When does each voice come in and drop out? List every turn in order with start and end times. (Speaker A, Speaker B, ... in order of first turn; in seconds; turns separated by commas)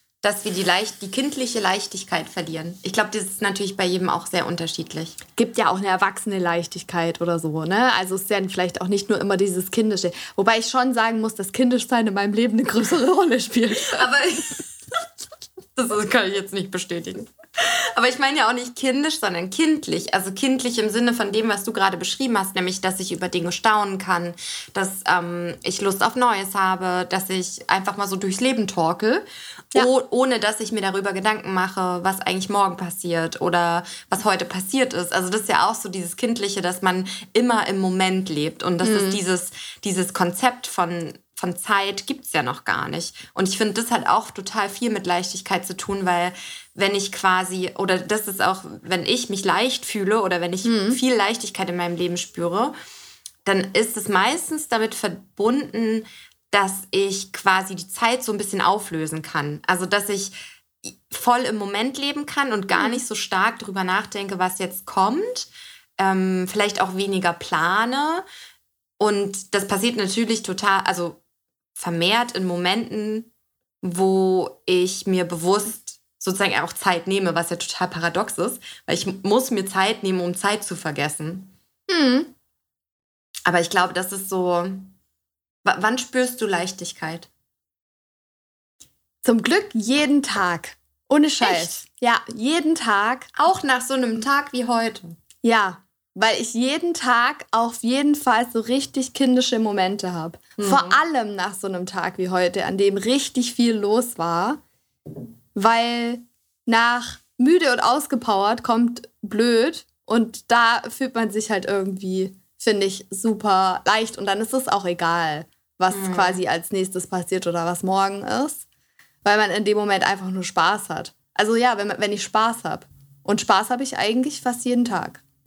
Speaker A: 0.2-5.2, Speaker B: 5.3-14.1, Speaker A: 13.8-14.6, Speaker A: 15.8-52.7, Speaker B: 38.8-39.2, Speaker B: 50.6-51.0, Speaker A: 53.4-68.2, Speaker B: 62.7-63.0, Speaker A: 69.0-71.2, Speaker A: 71.8-73.3, Speaker A: 73.8-81.5, Speaker B: 81.9-82.3, Speaker A: 83.5-84.9, Speaker A: 85.6-87.3, Speaker B: 89.2-93.3, Speaker A: 91.4-91.7, Speaker A: 93.3-95.2, Speaker B: 95.4-104.6, Speaker A: 100.6-101.0, Speaker B: 105.5-118.6, Speaker A: 115.9-116.4, Speaker B: 119.2-125.2